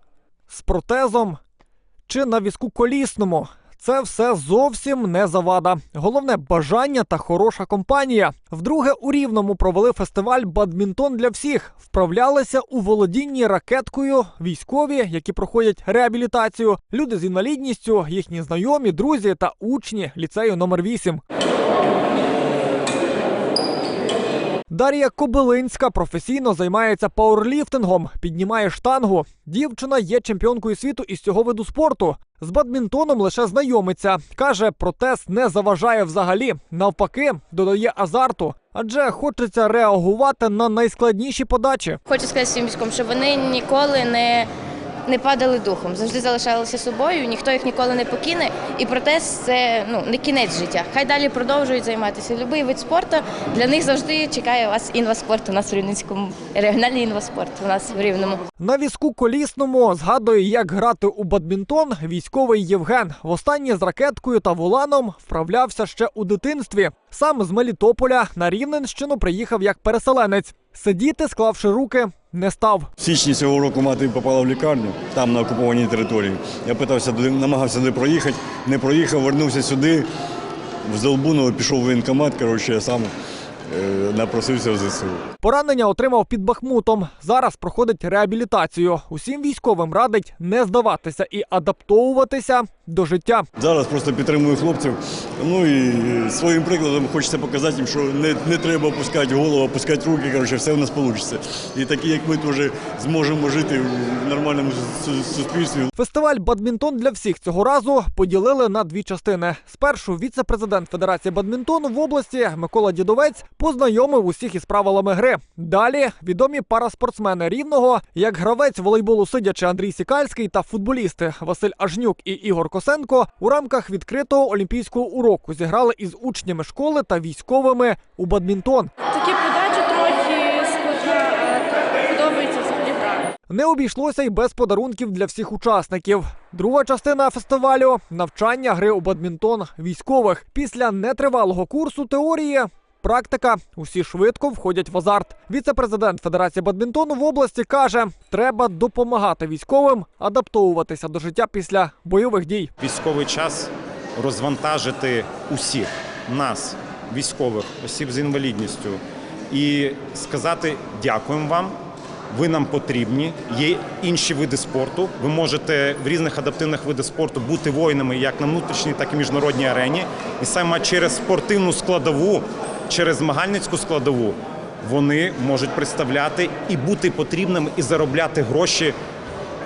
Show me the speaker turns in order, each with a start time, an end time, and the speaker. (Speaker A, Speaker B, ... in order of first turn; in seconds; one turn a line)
Speaker A: 0.5-1.4
Speaker A: 2.1-21.2
Speaker A: 24.7-42.0
Speaker B: 42.1-44.5
Speaker B: 45.1-58.4
Speaker A: 58.6-72.9
Speaker C: 73.0-80.1
Speaker C: 80.8-83.1
Speaker C: 83.7-85.2
Speaker A: 85.4-93.5
Speaker C: 93.6-105.9
Speaker A: 106.0-128.9
Speaker D: 129.1-133.2
Speaker A: 133.5-152.7
Speaker E: 152.8-161.8
Speaker E: 162.3-178.9